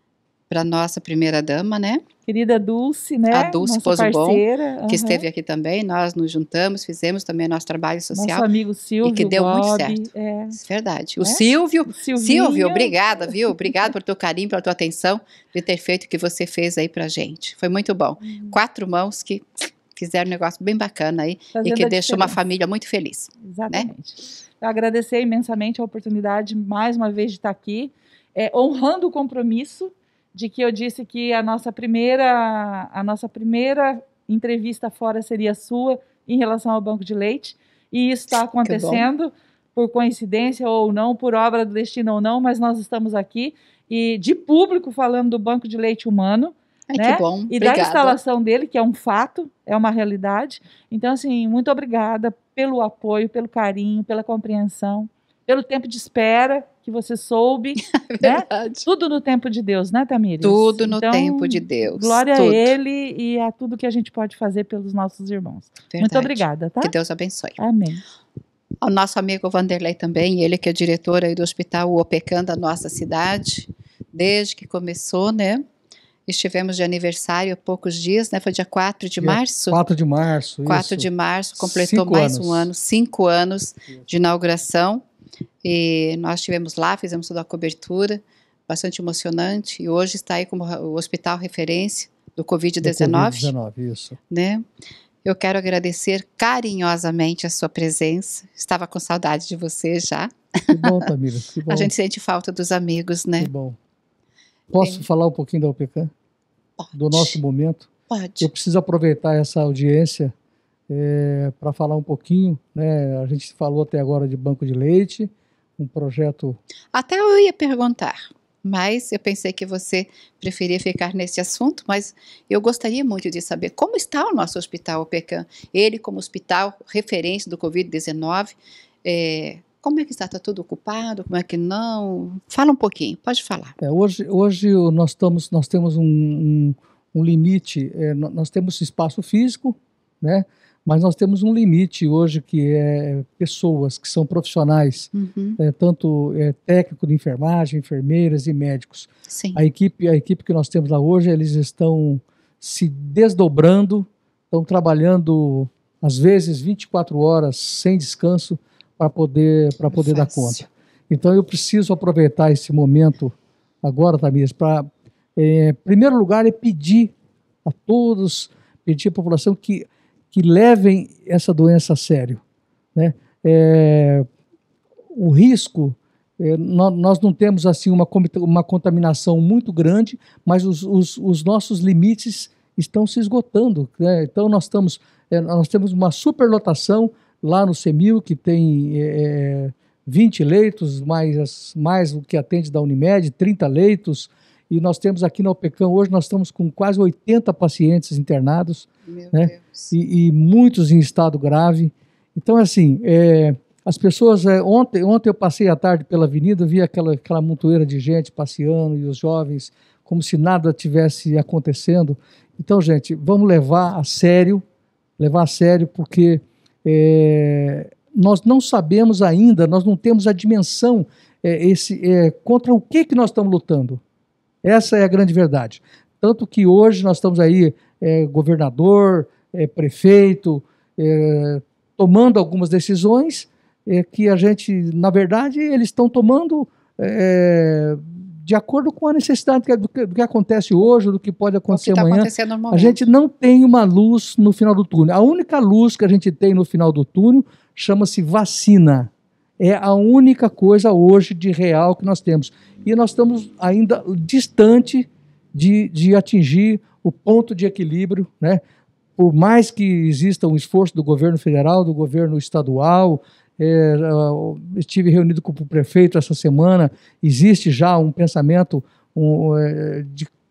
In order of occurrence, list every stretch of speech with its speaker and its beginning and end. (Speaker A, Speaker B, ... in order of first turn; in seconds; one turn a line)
Speaker A: 0.5-2.0
Speaker B: 2.3-5.2
Speaker A: 3.3-8.5
Speaker B: 8.1-10.6
Speaker A: 9.0-23.9
Speaker B: 11.2-13.5
Speaker B: 18.2-18.6
Speaker B: 21.6-22.4
Speaker B: 23.4-66.9
Speaker A: 38.6-39.1
Speaker A: 46.9-48.2
Speaker A: 57.8-58.9
Speaker A: 60.4-62.7
Speaker A: 65.9-67.6
Speaker B: 67.6-68.0
Speaker A: 68.8-75.6
Speaker A: 76.3-79.8
Speaker C: 79.2-82.7
Speaker A: 80.7-85.0
Speaker A: 85.6-93.5
Speaker C: 92.8-94.2
Speaker A: 94.3-94.7
Speaker A: 95.2-101.0
Speaker C: 100.7-101.9
Speaker A: 101.7-103.5
Speaker C: 103.4-103.8
Speaker C: 104.7-106.1
Speaker A: 106.8-107.4
Speaker C: 106.9-107.9
Speaker A: 108.1-108.5
Speaker C: 108.4-110.3
Speaker C: 110.9-116.6
Speaker A: 116.9-133.8
Speaker C: 133.8-167.1
Speaker A: 145.1-145.6
Speaker A: 149.3-149.6
Speaker A: 159.9-160.7
Speaker C: 167.7-172.4
Speaker C: 172.9-174.3
Speaker C: 175.1-214.6
Speaker A: 199.1-199.9
Speaker C: 215.2-224.0
Speaker C: 224.6-258.6
Speaker A: 241.7-243.0
Speaker C: 259.2-270.3